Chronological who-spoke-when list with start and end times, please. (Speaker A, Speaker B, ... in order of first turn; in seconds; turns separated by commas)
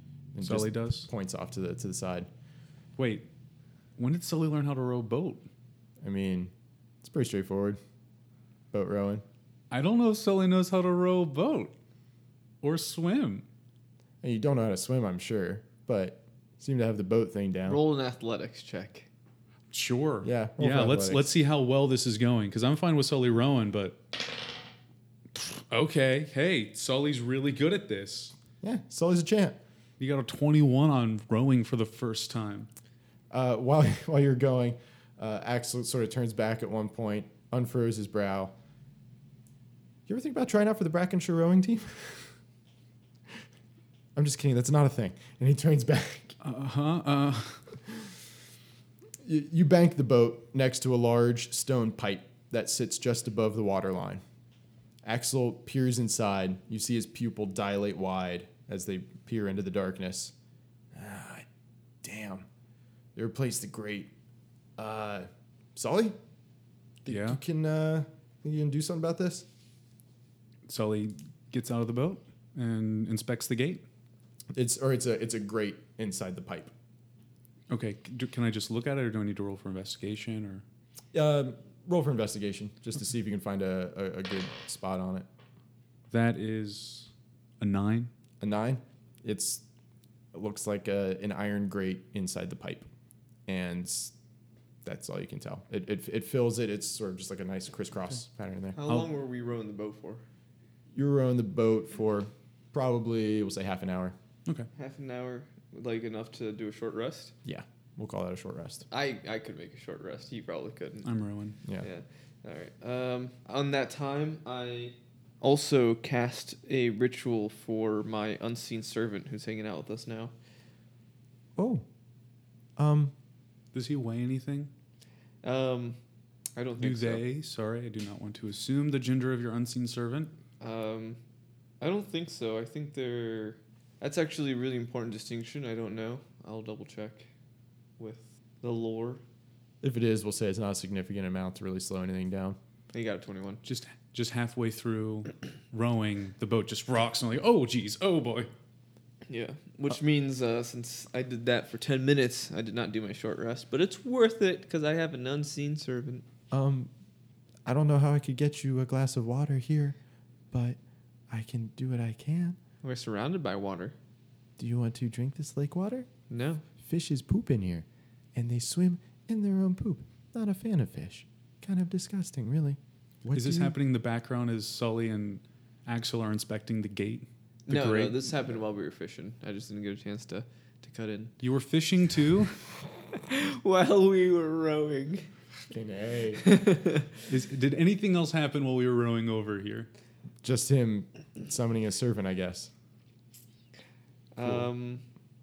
Speaker A: 0.3-2.3, Speaker B: 0.4-1.1, Speaker B: 3.0-3.2, Speaker B: 4.0-5.5, Speaker A: 6.0-6.5, Speaker A: 7.0-7.8, Speaker A: 8.7-9.2, Speaker B: 9.7-11.7, Speaker B: 12.6-13.4, Speaker A: 14.2-17.8, Speaker C: 17.7-19.1, Speaker B: 19.7-24.0, Speaker A: 20.2-21.2, Speaker B: 25.3-28.3, Speaker A: 28.6-29.6, Speaker B: 30.0-32.7, Speaker A: 33.3-38.5, Speaker A: 40.1-42.3, Speaker A: 44.2-46.3, Speaker B: 46.4-47.6, Speaker A: 49.2-54.2, Speaker A: 55.0-60.3, Speaker A: 60.9-61.5, Speaker A: 62.0-62.5, Speaker A: 63.1-64.1, Speaker A: 64.8-66.2, Speaker A: 67.0-69.5, Speaker B: 67.1-67.4, Speaker B: 70.7-73.8, Speaker A: 74.5-76.7, Speaker B: 77.7-80.6, Speaker A: 81.1-85.3, Speaker B: 86.1-88.1, Speaker A: 88.4-89.6, Speaker A: 90.3-92.9, Speaker A: 93.5-94.1, Speaker A: 94.8-98.8, Speaker C: 98.7-100.2, Speaker A: 101.0-104.2, Speaker C: 104.8-107.3, Speaker A: 107.5-108.9, Speaker C: 108.9-111.1, Speaker B: 111.0-111.6, Speaker C: 111.8-120.3, Speaker A: 121.6-121.8, Speaker A: 122.8-123.1, Speaker B: 123.7-124.7, Speaker C: 125.4-126.0, Speaker C: 126.6-127.2, Speaker B: 126.8-130.3, Speaker C: 130.6-131.2, Speaker C: 131.8-137.3, Speaker C: 138.0-139.2, Speaker A: 139.8-142.6, Speaker C: 142.9-143.6, Speaker B: 143.6-148.5, Speaker C: 149.3-156.2, Speaker A: 156.5-156.9, Speaker A: 157.7-160.0, Speaker A: 160.5-160.8, Speaker A: 161.3-162.6, Speaker C: 162.8-163.9, Speaker A: 164.6-166.1, Speaker C: 166.3-166.7, Speaker A: 166.8-173.8, Speaker B: 173.3-178.2, Speaker C: 177.7-181.3, Speaker B: 181.4-182.6, Speaker C: 183.1-185.3, Speaker A: 185.7-186.4, Speaker C: 186.4-187.2, Speaker B: 187.3-189.9, Speaker A: 190.4-192.7, Speaker C: 194.4-195.0